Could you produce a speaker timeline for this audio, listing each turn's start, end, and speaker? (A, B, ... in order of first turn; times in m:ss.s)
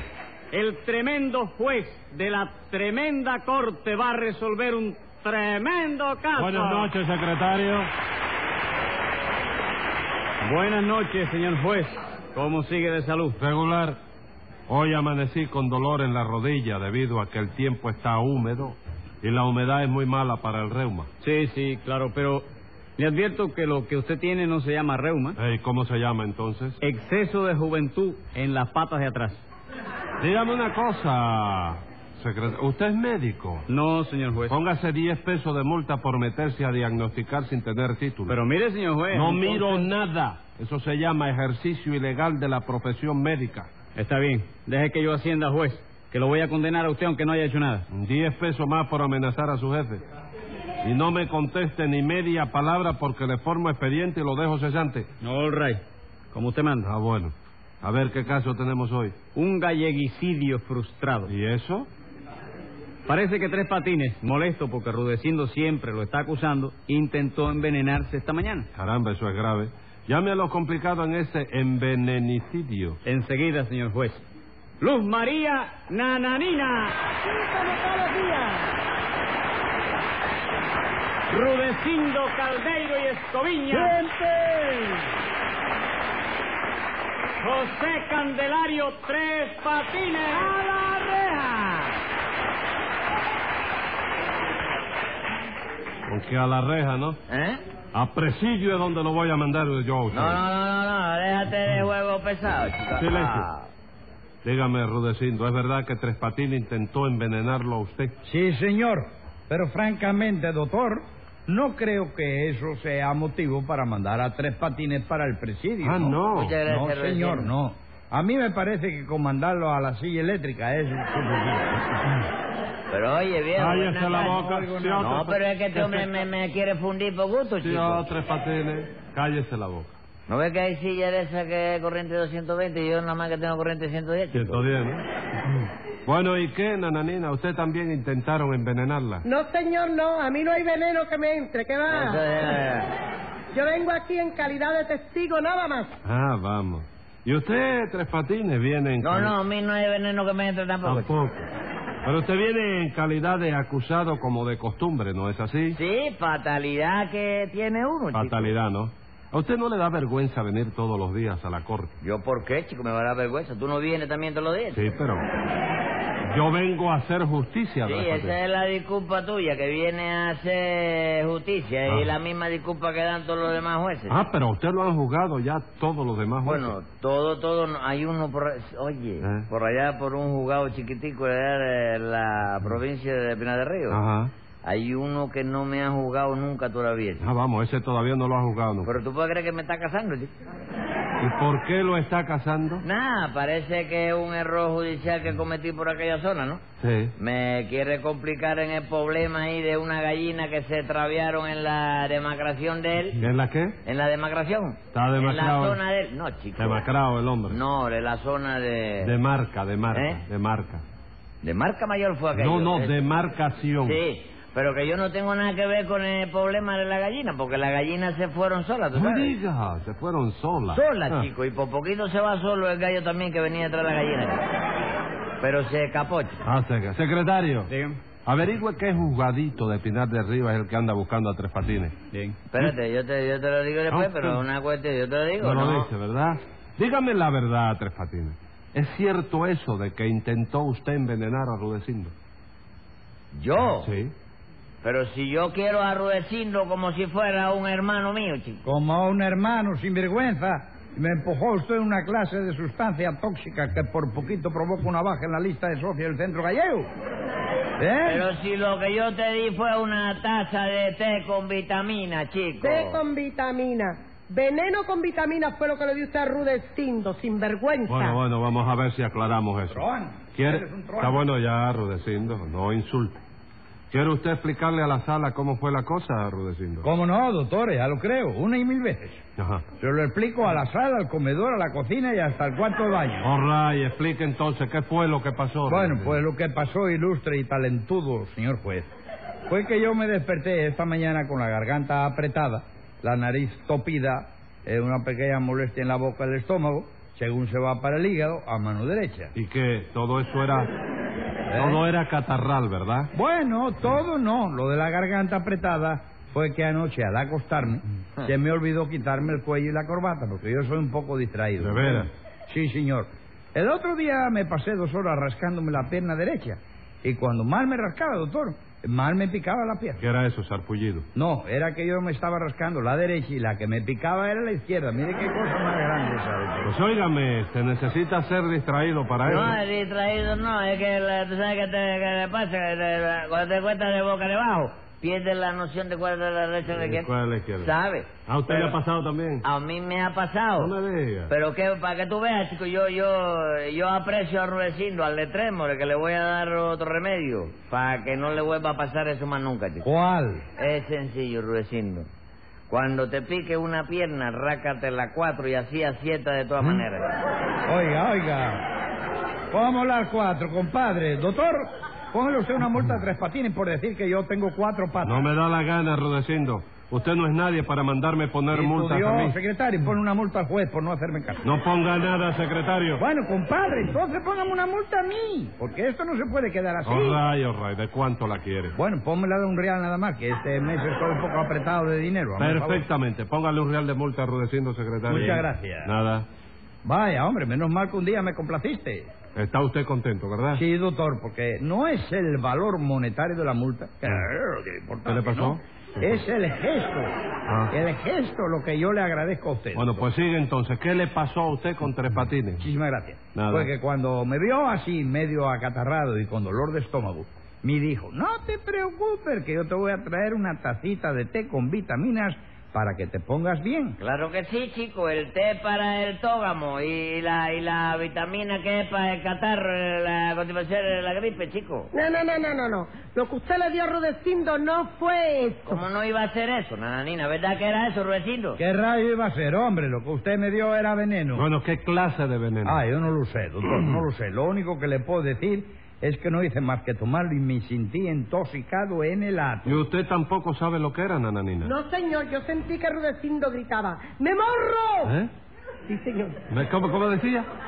0:00.5-0:06.9 A
0:06.4-0:07.9 B
0:10.4-0:13.4 A
0:13.4-0:14.0 B
0:14.7-0:21.1 B
0:21.2-0:22.4 A
0:23.0-0:25.4 A
0:25.4-0:26.8 B
0:26.8-0:29.4 A
0:30.2-0:33.7 B
0:33.7-0:34.6 A
0:34.5-0:38.4 B
0:38.3-0:39.9 A
0:39.1-0:43.7 B
0:43.9-0:47.8 A
0:47.9-0:50.0 B
0:50.8-0:55.1 B
0:55.2-0:56.9 A
0:56.8-0:59.2 B
0:59.3-1:01.3 A
1:01.3-1:01.9 B
1:03.1-1:08.7 A
1:08.8-1:13.0 B
1:13.0-1:14.2 A
1:14.8-1:17.1 A
1:17.2-1:18.7 C
1:21.3-1:24.0 A
1:27.4-1:30.5 A
1:30.6-1:31.8 D
1:36.1-1:37.2 B
1:37.3-1:37.6 D
1:37.9-1:40.4 B
1:40.1-1:43.7 D
1:43.0-1:43.4 B
1:44.4-1:48.2 B
1:48.2-2:01.8 E
1:55.8-1:56.6 B
1:56.3-1:57.5 D
2:02.9-2:08.0 D
2:03.6-2:06.1 B
2:04.3-2:05.0 E
2:07.6-2:09.9 B
2:10.3-2:14.6 D
2:14.3-2:15.0 B
2:16.0-2:19.2 B
2:19.3-2:22.2 C
2:21.9-2:22.9 D
2:23.5-2:25.9 C
2:26.0-2:29.4 B
2:29.0-2:31.2 D
2:30.8-2:31.4 B
2:32.0-2:35.8 B
2:35.7-2:38.5 D
2:38.1-2:42.0 B
2:42.0-2:44.8 D
2:44.7-2:45.2 B
2:46.3-2:48.4 B
2:47.8-2:54.2 D
2:54.1-2:56.8 B
2:56.4-3:04.0 D
2:59.2-2:59.5 B
3:03.9-3:04.3 B
3:04.6-3:07.3 D
3:07.2-3:08.9 B
3:08.8-3:10.3 D
3:11.2-3:12.8 B
3:12.8-3:16.6 D
3:16.8-3:17.1 B
3:17.2-3:23.2 D
3:23.2-3:23.8 B
3:23.8-3:26.8 D
3:24.9-3:25.8 B
3:26.6-3:27.6 B
3:27.5-3:29.1 D
3:29.0-3:30.8 B
3:29.9-3:30.2 D
3:31.4-3:33.0 D
3:32.3-3:34.0 B
3:33.8-3:39.4 D
3:38.9-3:41.3 B
3:40.7-3:44.4 D
3:45.4-3:46.4 D
3:46.4-3:47.7 B
3:47.7-3:48.0 A
3:48.2-3:51.9 B
3:52.1-3:52.4 A
3:52.5-3:55.9 D
3:53.9-3:54.4 B
3:55.4-4:02.1 B
4:03.3-4:03.9 D
4:03.8-4:04.1 B
4:04.8-4:08.6 D
4:08.6-4:16.9 E
4:17.8-4:18.3 E
4:18.0-4:23.0 D
4:22.6-4:28.2 C
4:27.9-4:33.2 B
4:29.7-4:31.2 E
4:33.9-4:36.9 B
4:36.8-4:39.2 E
4:39.4-4:39.7 B
4:39.8-4:43.3 E
4:43.2-4:46.2 B
4:45.7-4:48.9 E
4:49.5-4:59.3 E
4:59.3-5:00.7 B
5:01.5-5:01.8 E
5:01.6-5:03.1 B
5:03.1-5:20.0 E
5:11.6-5:12.1 B
5:20.0-5:21.0 B
5:21.2-5:26.7 E
5:26.6-5:29.6 B
5:29.2-5:38.8 D
5:36.7-5:37.7 B
5:38.3-5:39.4 B
5:39.4-5:40.7 D
5:40.6-5:41.3 B
5:41.3-5:49.9 D
5:49.8-5:50.4 E
5:50.6-5:52.1 D
5:52.7-5:57.1 D
5:57.7-5:58.6 E
5:59.5-6:05.3 E
6:05.0-6:09.4 B
6:08.5-6:11.4 E
6:11.4-6:13.0 B
6:13.0-6:17.2 E
6:16.8-6:18.8 B
6:18.8-6:22.9 E
6:22.4-6:26.2 B
6:25.1-6:25.9 E
6:26.8-6:29.1 E
6:29.3-6:30.6 B
6:30.5-6:37.1 E
6:35.0-6:36.2 B
6:37.5-6:37.7 B
6:37.7-6:40.0 E
6:39.7-6:42.6 B
6:42.6-6:54.0 E
6:43.3-6:43.7 B
6:54.0-7:01.9 D
7:01.9-7:05.8 C
7:05.7-7:08.6 D
7:08.6-7:11.5 E
7:11.3-7:12.8 B
7:12.6-7:19.8 E
7:19.6-7:21.7 B
7:21.6-7:25.1 C
7:25.0-7:25.3 B
7:25.9-7:26.4 C
7:26.5-7:27.5 B